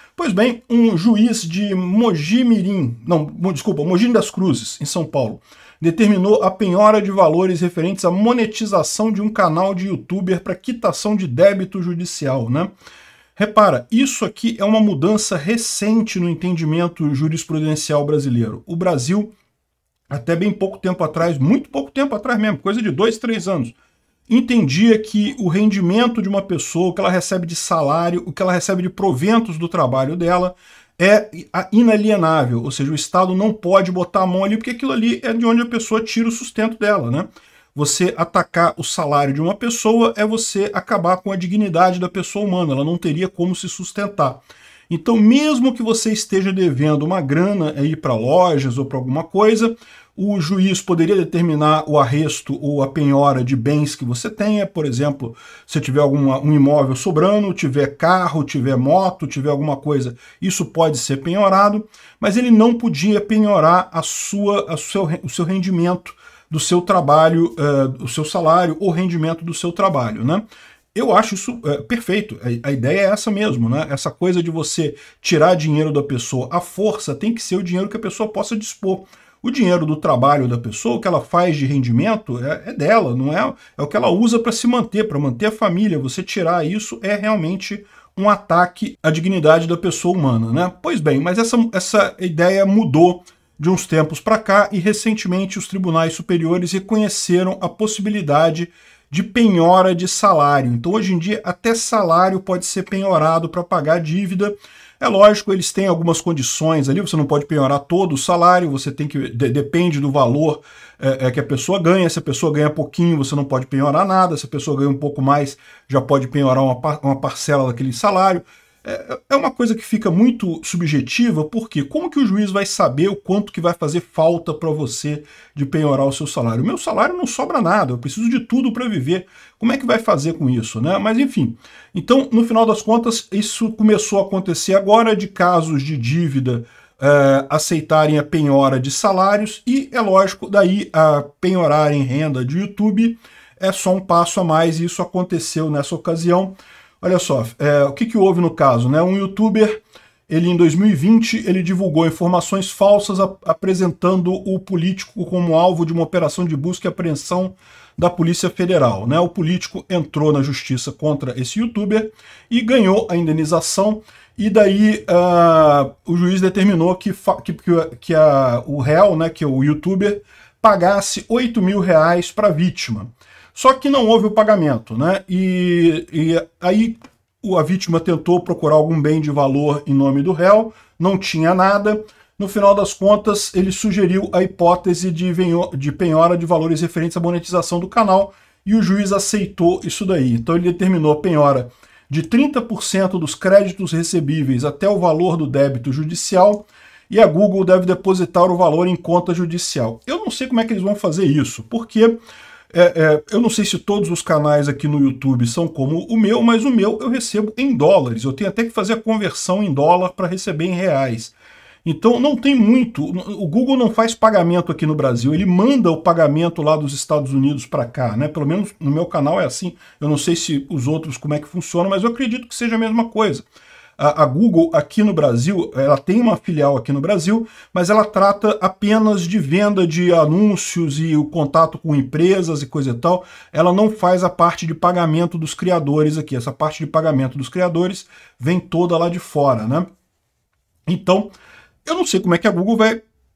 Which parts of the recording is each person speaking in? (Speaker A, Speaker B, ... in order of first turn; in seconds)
Speaker A: 0.1-12.7, 13.3-19.3, 20.1-23.8, 24.3-70.4, 70.9-202.2, 202.7-223.4, 224.0-239.8, 240.9-241.3, 241.8-243.0